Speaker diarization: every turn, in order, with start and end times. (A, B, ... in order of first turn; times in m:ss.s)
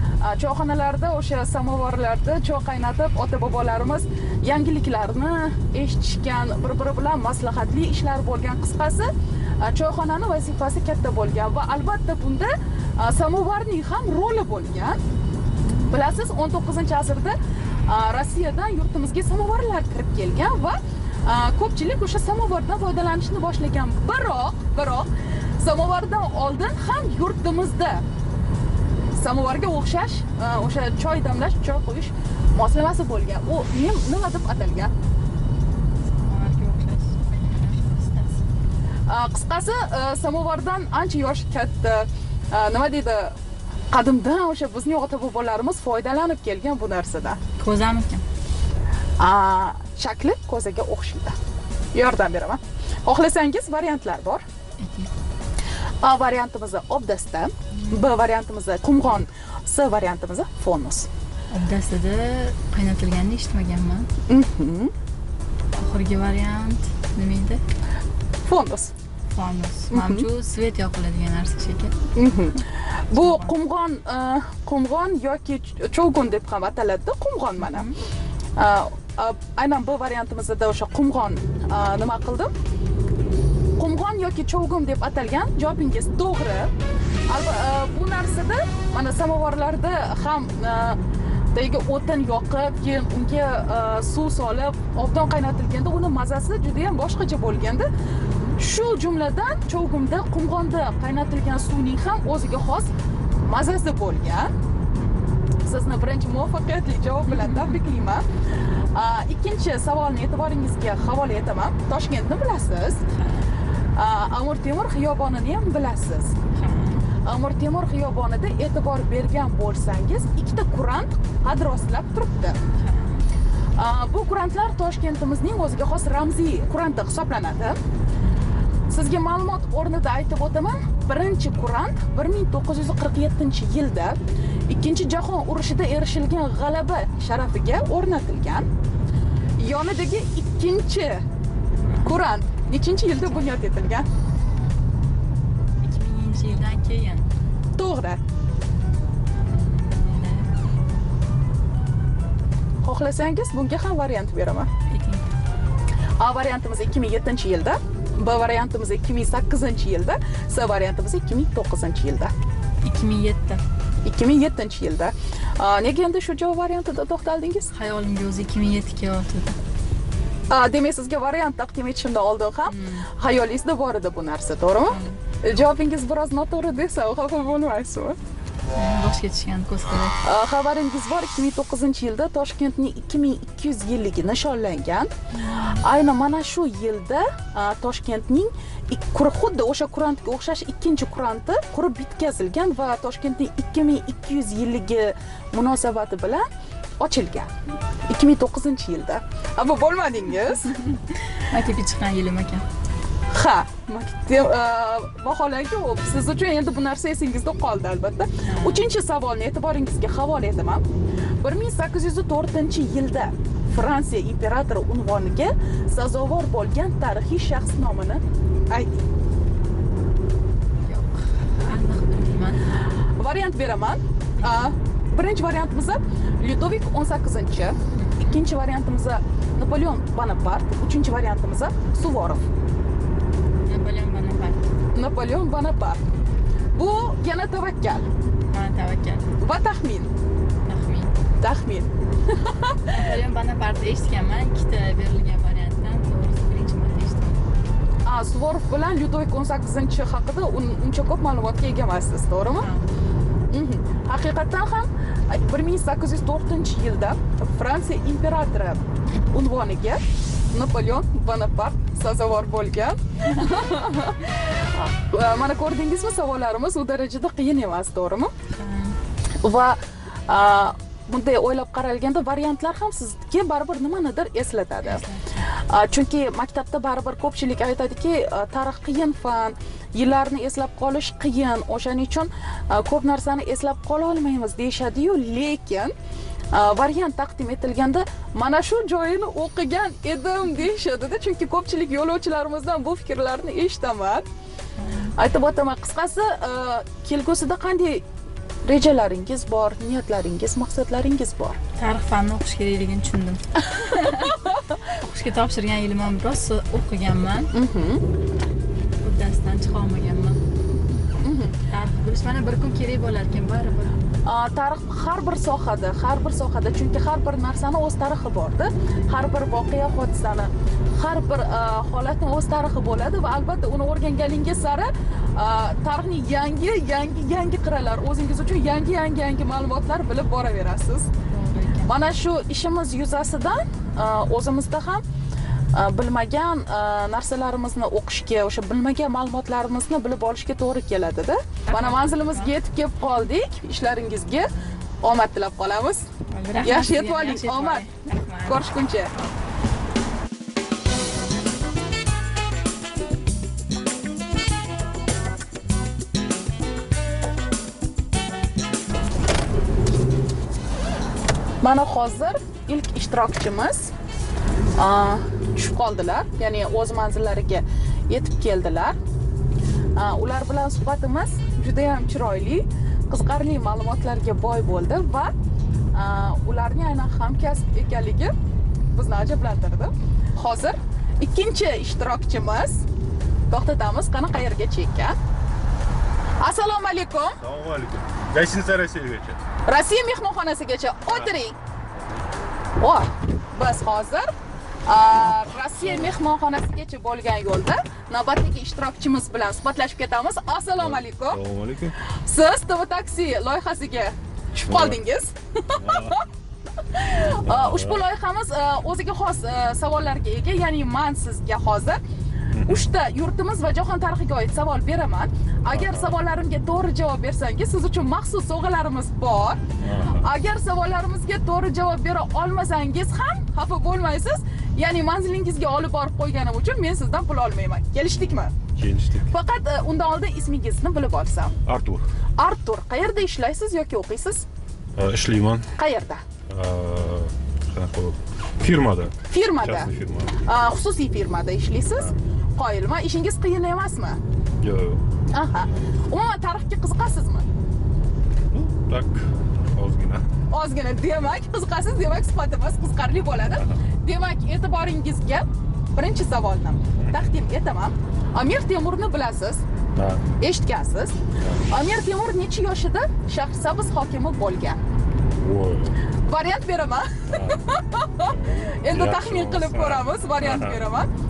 0:00.2-0:15.0 A
0:15.9-0:17.4 A
0:17.9-0:28.0 A
0:29.2-0:34.9 A
0:36.2-0:38.4 B
0:39.1-0:43.3 A
0:43.9-0:47.4 A
0:47.6-0:48.2 B
0:49.2-0:51.4 A
0:51.9-0:54.4 A
0:54.8-0:55.1 B
0:56.0-1:01.1 A
0:57.7-0:58.2 B
1:01.5-1:04.1 B
1:04.3-1:04.9 A
1:05.7-1:07.6 B
1:08.4-1:08.9 A
1:09.3-1:11.9 B
1:09.9-1:10.2 A
1:12.1-1:17.9 A
1:13.1-1:13.5 B
1:17.6-1:17.9 B
1:18.6-1:22.5 A
1:23.8-1:26.7 A
1:27.3-1:31.0 A
1:31.5-1:37.9 A
1:38.6-1:42.9 A
1:43.4-1:44.5 A
1:45.6-1:48.2 A
1:47.3-1:47.7 B
1:48.9-1:53.0 A
1:53.1-1:53.5 B
1:54.0-1:56.3 A
1:56.5-1:57.0 B
1:57.2-2:02.6 A
2:02.8-2:03.2 B
2:03.8-2:07.8 A
2:08.9-2:14.2 A
2:14.7-2:18.7 A
2:19.6-2:21.2 A
2:21.8-2:22.2 B
2:22.0-2:24.1 A
2:25.8-2:27.3 B
2:27.8-2:28.2 A
2:29.5-2:30.5 B
2:32.8-2:34.7 A
2:34.9-2:35.2 B
2:36.2-2:42.3 A
2:42.8-2:43.6 B
2:44.0-2:47.7 A
2:47.7-2:49.6 B
2:50.5-2:58.2 A
2:52.7-2:53.0 B
2:54.9-2:55.2 B
2:58.7-3:00.2 B
3:00.2-3:05.1 A
3:05.4-3:05.8 B
3:05.7-3:16.5 A
3:17.0-3:17.5 A
3:18.1-3:20.7 A
3:20.6-3:22.6 B
3:23.3-3:30.8 A
3:28.4-3:28.9 B
3:31.4-3:39.0 A
3:40.8-3:42.6 B
3:43.2-3:52.4 A
3:47.9-3:48.3 B
3:53.7-3:54.6 B
3:54.9-3:56.0 A
3:56.7-3:58.1 A
3:58.5-3:59.3 B
3:59.4-4:00.1 A
4:00.7-4:01.1 B
4:01.4-4:03.0 A
4:02.9-4:07.4 B
4:08.0-4:12.7 A
4:12.6-4:12.8 B
4:13.5-4:28.3 A
4:28.5-4:29.0 B
4:29.4-4:35.0 A
4:34.8-4:35.4 B
4:35.6-4:45.9 A
4:46.5-4:54.2 A
4:54.8-4:55.1 B
4:55.2-4:58.0 A
4:58.7-5:01.6 A
5:01.8-5:04.4 B
5:03.7-5:04.6 A
5:04.9-5:07.5 B
5:07.5-5:08.0 A
5:09.0-5:10.4 B
5:11.2-5:11.5 A
5:11.7-5:13.9 B
5:14.2-5:31.1 A
5:31.3-5:31.9 B
5:31.8-5:35.0 A
5:35.7-5:44.5 A
5:41.7-5:42.5 B
5:45.0-5:46.1 A
5:46.3-5:48.6 B
5:46.6-5:47.8 A
5:48.5-5:49.1 A
6:01.6-6:03.9 A
6:04.8-6:09.0 A
6:10.0-6:15.3 A
6:15.9-6:18.3 A
6:18.9-6:22.8 A
6:23.5-6:25.2 A
6:26.4-6:27.4 A
6:27.4-6:29.4 C
6:29.7-6:31.6 A
6:31.9-6:32.3 C
6:32.8-6:34.3 A
6:34.8-6:41.4 A
6:35.8-6:36.1 C
6:40.8-6:41.9 C
6:42.1-6:46.2 A
6:44.7-6:45.0 C
6:45.8-6:46.2 C
6:46.9-6:52.0 A
6:47.4-6:48.0 C
6:52.5-6:52.9 C
6:52.6-6:59.6 A
6:55.6-6:56.2 C
6:59.8-7:00.3 C
7:00.2-7:08.5 A
7:08.8-7:09.3 C
7:09.3-7:11.6 A
7:11.6-7:12.0 C
7:12.4-7:14.4 A
7:15.0-7:15.7 C
7:15.7-7:16.2 A
7:16.5-7:20.4 C
7:19.3-7:24.2 A
7:24.6-7:25.8 C
7:25.3-7:27.4 A
7:28.5-7:30.3 C
7:30.5-7:39.6 A
7:33.5-7:33.8 C
7:37.0-7:37.3 C
7:39.9-7:40.3 C
7:40.4-7:44.8 A
7:41.4-7:41.7 C
7:45.4-7:46.0 C
7:46.2-7:51.1 A
7:47.3-7:47.6 C
7:48.2-7:50.8 C